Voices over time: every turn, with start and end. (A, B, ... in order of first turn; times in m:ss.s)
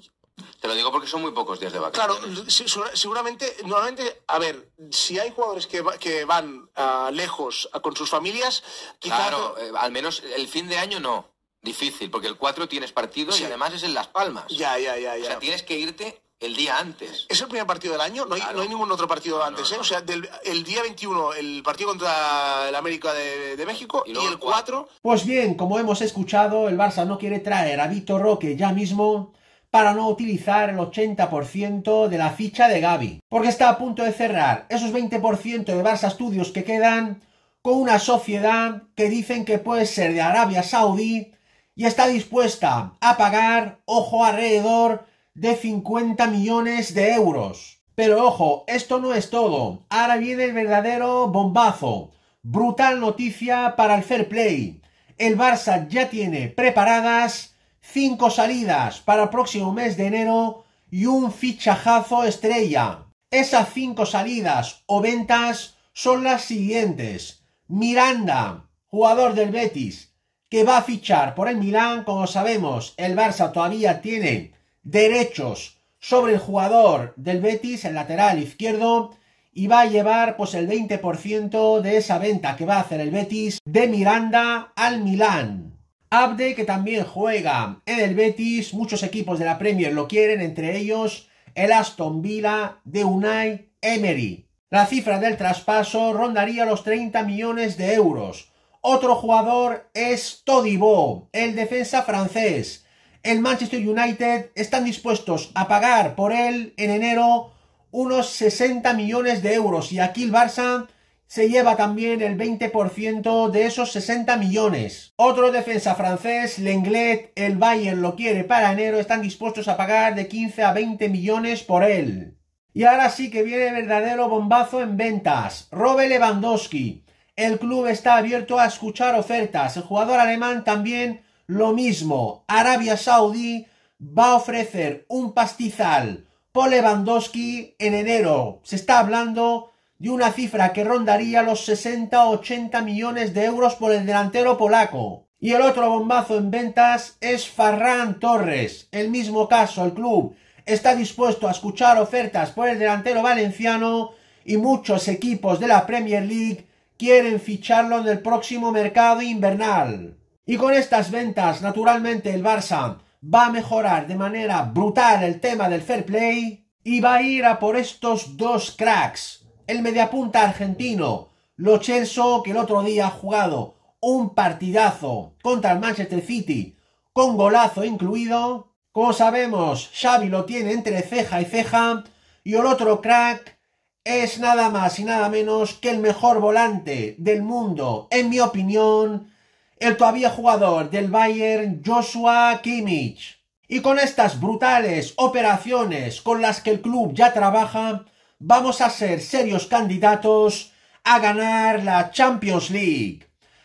0:00.6-0:02.4 A
0:01.9-0:09.6 B
0:09.0-0:14.6 A
0:13.3-0:13.6 B
0:14.5-0:15.4 B
0:15.2-0:17.3 A
0:17.3-0:24.8 B
0:18.4-0:18.7 A
0:19.3-0:20.0 A
0:24.0-0:24.8 A
0:25.0-3:09.3 C
3:09.8-3:23.3 C